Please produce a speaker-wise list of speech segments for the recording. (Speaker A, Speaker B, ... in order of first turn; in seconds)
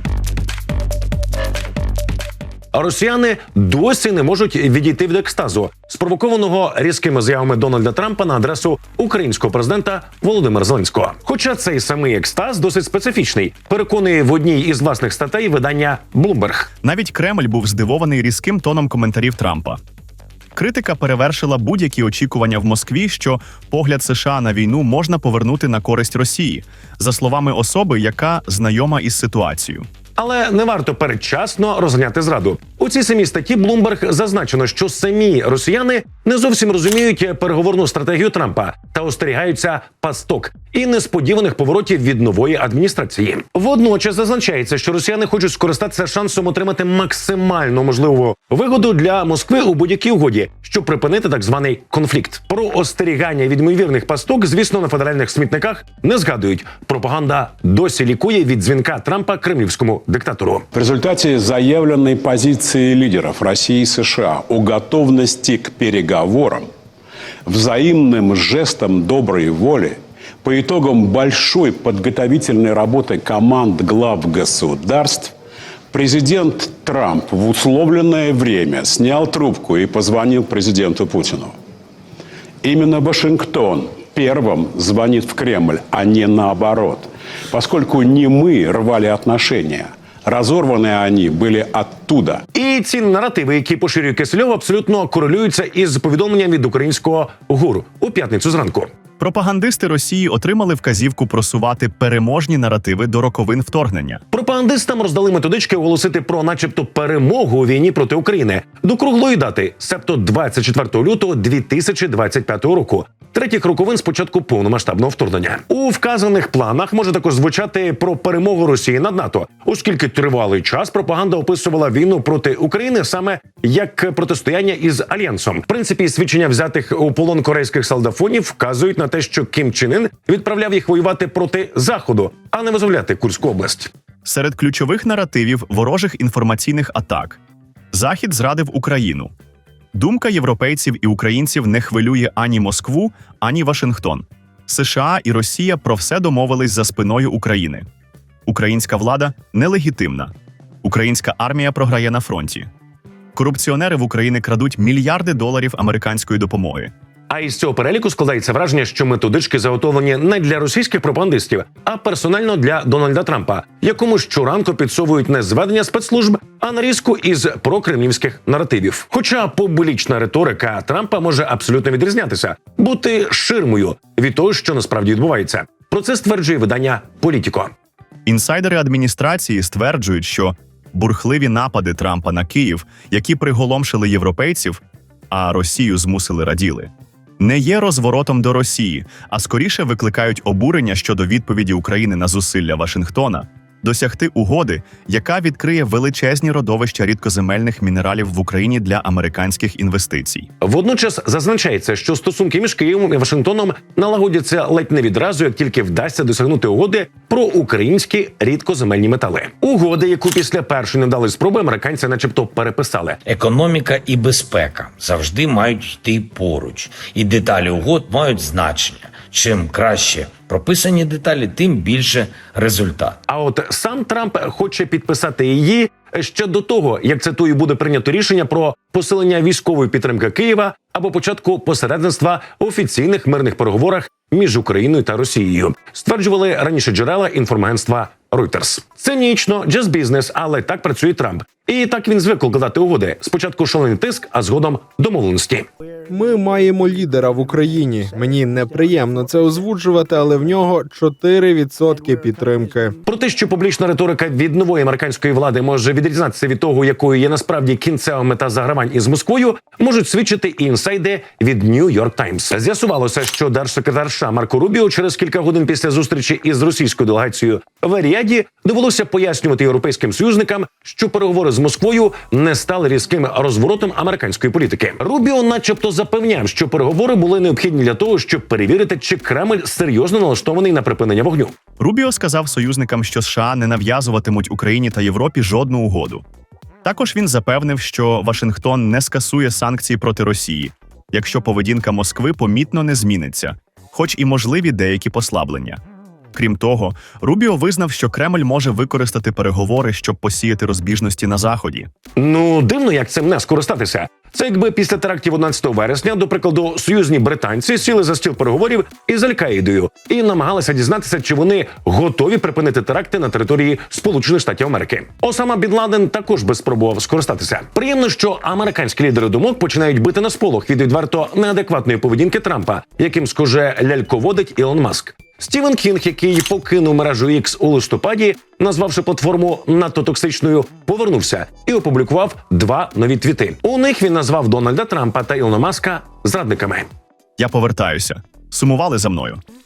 Speaker A: 2.7-16.7, 30.2-60.7, 92.5-98.9, 104.3-133.9, 157.3-177.7, 200.6-213.2, 223.3-245.7, 253.1-281.5, 302.1-336.9
Speaker B: 16.8-19.8, 20.5-29.9, 99.2-104.2, 134.2-137.4, 137.9-139.3, 139.9-147.8, 148.5-150.3, 150.8-152.7, 153.3-156.9, 178.2-200.5, 281.8-286.2, 286.8-295.8, 296.3-301.9, 337.4-339.4
Speaker C: 60.7-66.7, 67.5-75.3, 75.9-81.5, 82.6-92.4
Speaker D: 213.2-223.2
Speaker E: 246.1-253.0